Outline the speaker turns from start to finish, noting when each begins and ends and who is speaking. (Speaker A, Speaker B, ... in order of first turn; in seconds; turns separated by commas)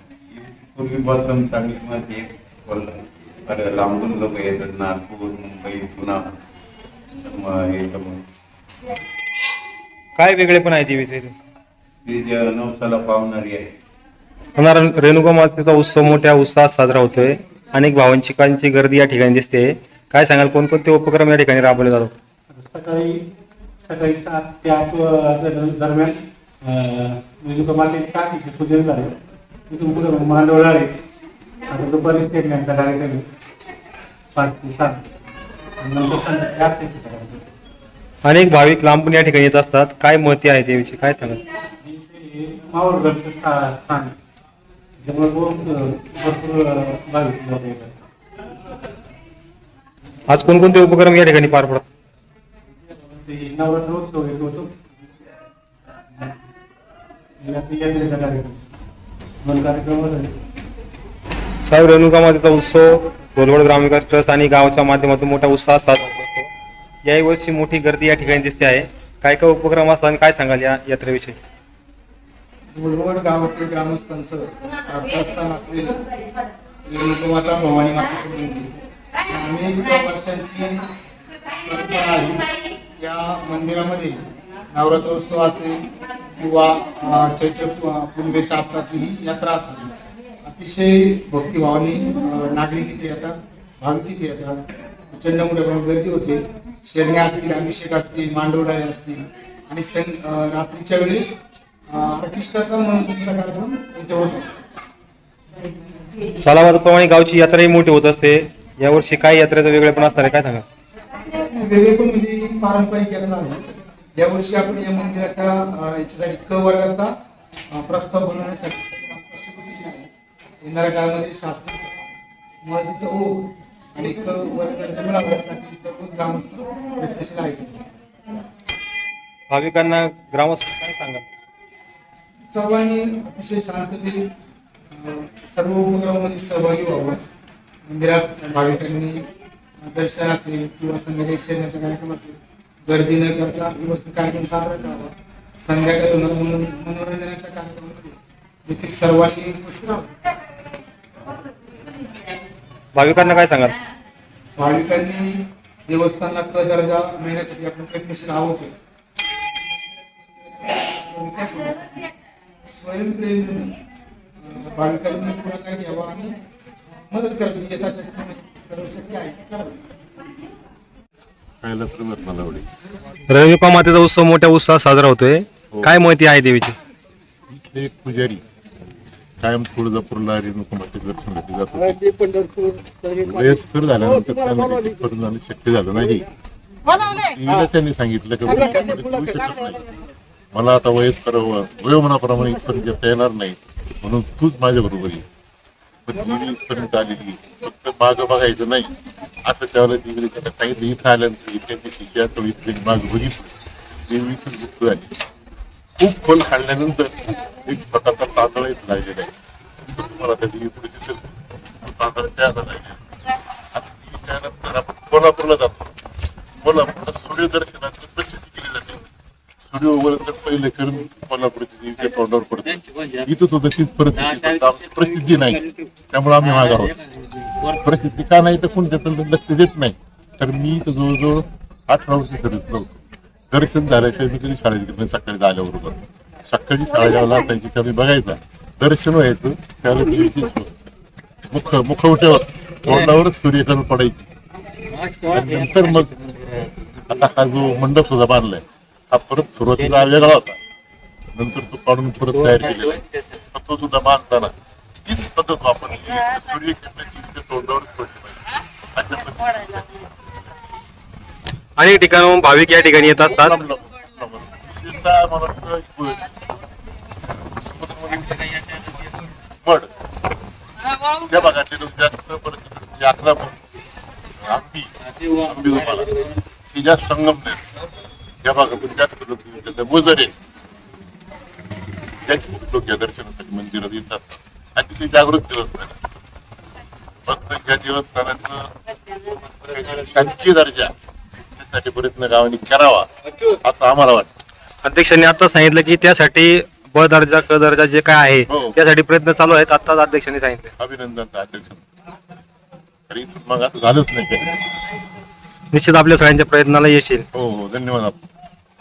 Speaker A: 0.3-6.3, Speaker A: 7.2-8.2, Speaker B: 10.2-11.4, Speaker A: 12.0-13.7, Speaker B: 14.6-22.1, Speaker C: 22.5-23.3, Speaker C: 23.8-29.1, Speaker C: 29.7-31.0, Speaker C: 31.7-33.3, Speaker C: 34.3-35.0, Speaker C: 35.8-37.4, Speaker B: 38.2-41.4, Speaker C: 41.8-44.1, Speaker C: 45.0-48.0, Speaker B: 50.3-51.8, Speaker C: 52.8-54.7, Speaker C: 57.4-58.6, Speaker C: 59.4-60.4, Speaker B: 61.6-66.5, Speaker B: 67.0-71.4, Speaker D: 72.7-76.0, Speaker D: 76.8-78.7, Speaker D: 79.3-80.8, Speaker D: 81.6-89.9, Speaker D: 90.4-101.4, Speaker D: 101.9-104.5, Speaker B: 106.4-110.6, Speaker D: 111.4-117.1, Speaker D: 117.7-120.1, Speaker D: 120.6-122.0, Speaker D: 122.6-127.9, Speaker B: 129.5-131.2, Speaker D: 132.5-134.3, Speaker D: 134.9-137.2, Speaker D: 137.8-139.3, Speaker D: 139.8-150.1, Speaker B: 152.9-153.7, Speaker D: 154.6-158.8, Speaker D: 160.2-162.0, Speaker D: 162.7-163.7, Speaker D: 164.4-166.4, Speaker D: 167.1-169.8, Speaker E: 171.6-172.7, Speaker B: 173.3-176.8, Speaker E: 177.5-178.4, Speaker E: 179.4-186.3, Speaker E: 186.8-190.0, Speaker E: 190.5-195.2, Speaker E: 196.1-203.5, Speaker E: 204.1-205.1, Speaker E: 206.0-213.0, Speaker E: 213.7-215.9, Speaker E: 216.6-219.1, Speaker E: 219.6-227.0, Speaker E: 227.6-233.0, Speaker E: 233.5-240.7, Speaker E: 241.5-244.2, Speaker E: 245.2-246.1, Speaker E: 247.1-250.6, Speaker E: 251.3-254.5, Speaker E: 255.1-258.4, Speaker E: 258.9-259.9, Speaker B: 261.8-263.6, Speaker E: 263.3-266.3, Speaker E: 267.6-268.9, Speaker E: 269.6-269.9, Speaker E: 271.1-273.6, Speaker E: 274.3-277.6, Speaker E: 278.4-280.3, Speaker E: 282.2-285.9, Speaker E: 287.3-288.7, Speaker E: 289.6-290.9, Speaker E: 291.5-294.3, Speaker B: 294.8-300.7, Speaker E: 298.5-298.8, Speaker E: 300.8-301.8, Speaker E: 303.1-304.6, Speaker B: 305.7-307.2, Speaker E: 307.3-308.2